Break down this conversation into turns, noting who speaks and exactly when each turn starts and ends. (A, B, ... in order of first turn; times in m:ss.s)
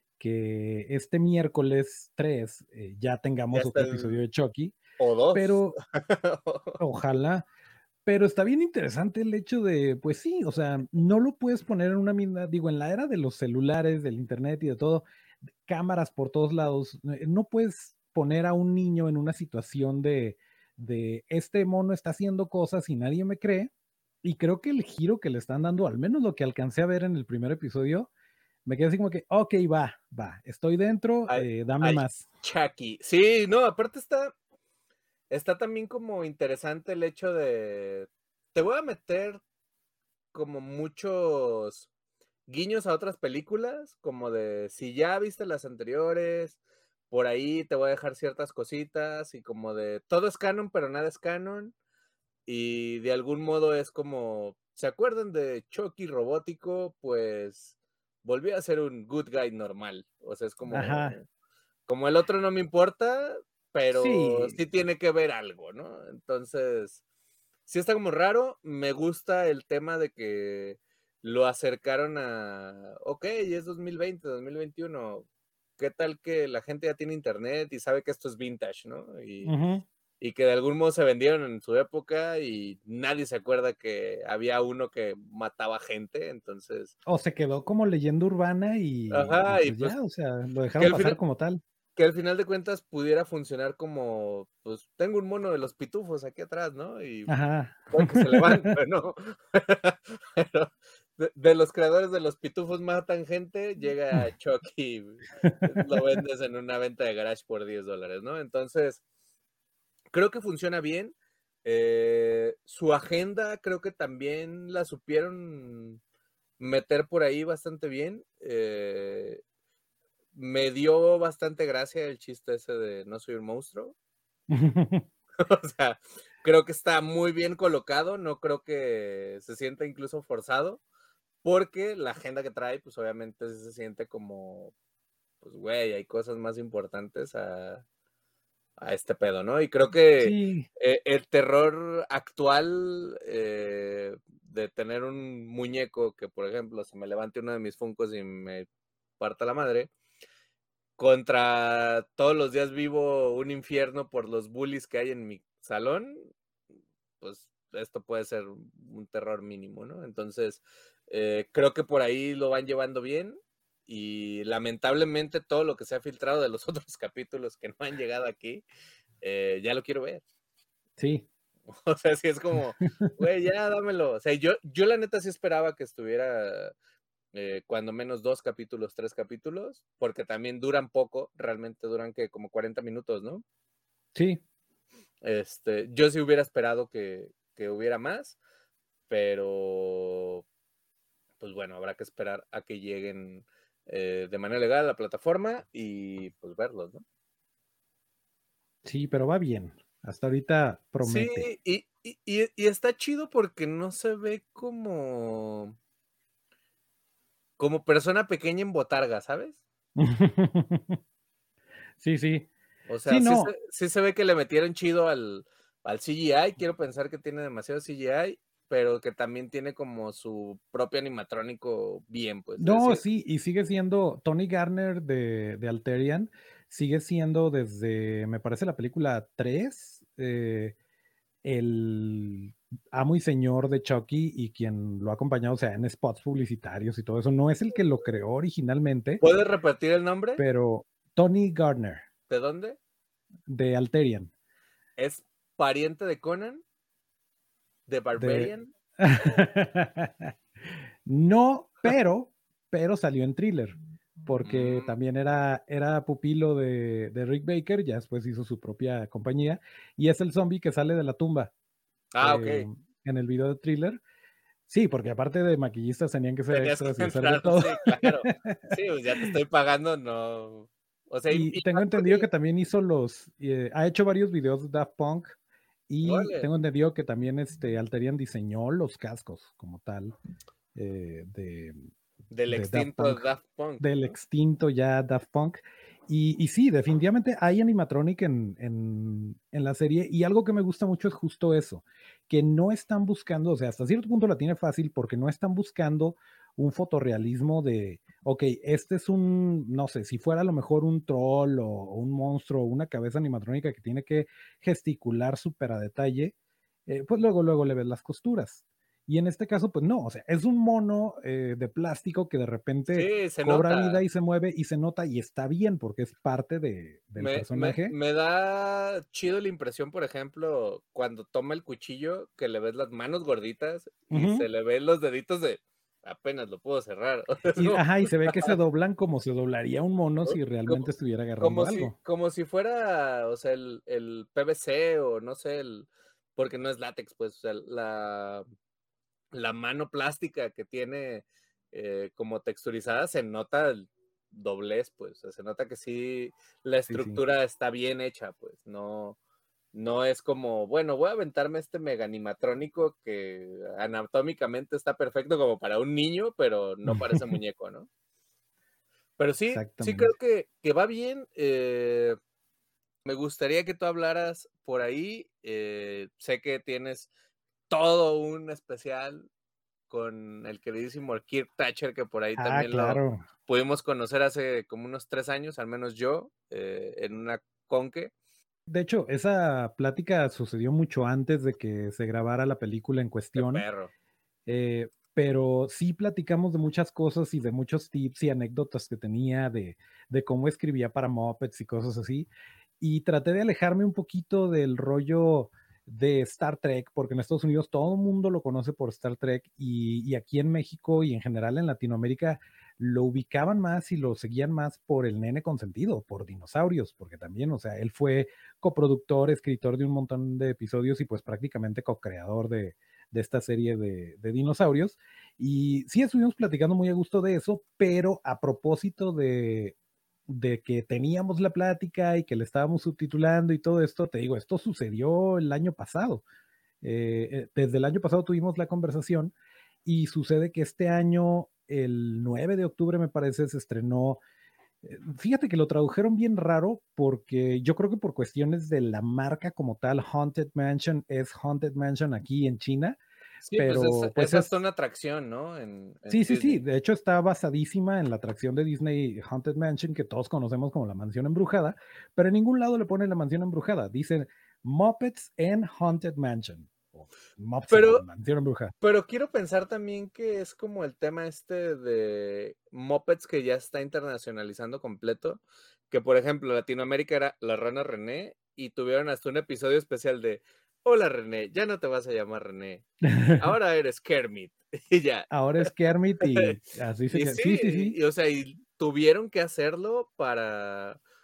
0:00.2-0:04.8 A
0:03.5-0:04.2 B
0:05.0-0:06.8 B
0:05.3-0:05.8 A
0:06.8-0:07.5 A
0:08.1-0:15.0 A
0:15.6-0:23.7 A
0:24.2-0:28.1 A
0:28.7-0:32.2 A
0:31.3-0:34.4 B
0:35.3-0:39.4 B
0:40.3-0:41.9 B
0:42.5-0:46.6 B
0:47.1-0:51.7 B
0:52.5-1:01.2 B
1:00.7-1:01.2 A
1:01.9-1:07.0 B
1:03.9-1:04.6 A
1:07.7-1:15.3 B
1:15.8-1:19.5 B
1:19.4-1:19.9 A
1:20.2-1:26.9 B
1:27.1-1:31.6 A
1:29.1-1:30.0 B
1:30.8-1:31.2 B
1:32.0-1:37.4 B
1:37.3-1:38.7 A
1:37.9-1:49.0 B
1:45.4-1:45.9 A
1:50.1-1:56.0 B
1:56.6-1:59.4 B
2:00.3-2:04.0 B
2:04.5-2:05.1 A
2:05.4-2:10.8 B
2:11.4-2:14.7 B
2:15.4-2:17.8 B
2:18.8-2:28.7 B
2:20.2-2:20.7 A
2:29.2-2:29.9 B
2:31.0-2:36.3 B
2:37.2-2:48.6 B
2:49.2-2:50.2 B
2:51.0-2:51.3 A
2:51.7-2:56.7 B
2:57.3-3:03.4 B
3:04.2-3:04.4 A
3:05.2-3:08.4 B
3:09.1-3:10.4 B
3:11.4-3:17.0 B
3:18.8-3:21.5 A
3:21.0-3:25.8 B
3:27.6-3:29.6 B
3:30.0-3:31.0 A
3:32.0-3:32.5 A
3:32.9-3:43.0 B
3:33.1-3:33.5 A
3:42.6-3:50.8 A
3:51.4-3:59.2 A
3:59.2-4:00.4 B
4:00.4-4:02.1 A
4:02.3-4:02.8 B
4:03.5-4:04.3 A
4:05.0-4:06.6 B
4:07.9-4:08.7 B
4:08.2-4:10.3 A
4:11.1-4:21.5 A
4:14.4-4:14.9 B
4:22.1-4:22.7 B
4:22.2-4:24.0 A
4:24.7-4:28.7 A
4:26.5-4:32.3 B
4:31.3-4:35.4 A
4:35.9-4:40.1 A
4:36.0-4:36.5 B
4:40.8-4:41.8 A
4:42.3-4:44.1 B
4:42.5-4:43.3 A
4:43.8-5:06.4 A
5:06.9-5:17.9 A
5:12.9-5:14.0 B
5:17.2-5:28.6 B
5:24.1-5:24.5 A
5:27.6-5:32.0 A
5:30.3-5:30.9 B
5:31.4-5:38.4 B
5:39.3-5:49.2 B
5:46.9-5:47.2 A
5:49.7-5:57.9 B
5:56.9-5:57.4 A
5:59.2-6:02.2 B
5:59.5-6:00.1 A
6:03.0-6:07.1 B
6:07.7-6:09.3 B
6:09.9-6:18.1 B
6:12.4-6:13.2 A
6:18.7-6:23.6 A
6:23.4-6:23.9 B
6:24.5-6:32.3 A
6:32.8-6:59.8 A
7:00.3-7:06.2 A
7:06.8-7:09.3 A
7:09.8-7:14.2 A
7:14.8-7:23.0 A
7:23.5-7:26.6 B
7:23.6-7:24.5 A
7:26.1-7:38.7 A
7:37.7-7:38.0 B
7:38.8-7:52.9 B
7:53.1-7:53.4 A
7:53.4-7:55.6 B
7:55.3-7:58.0 A
7:57.1-8:01.0 B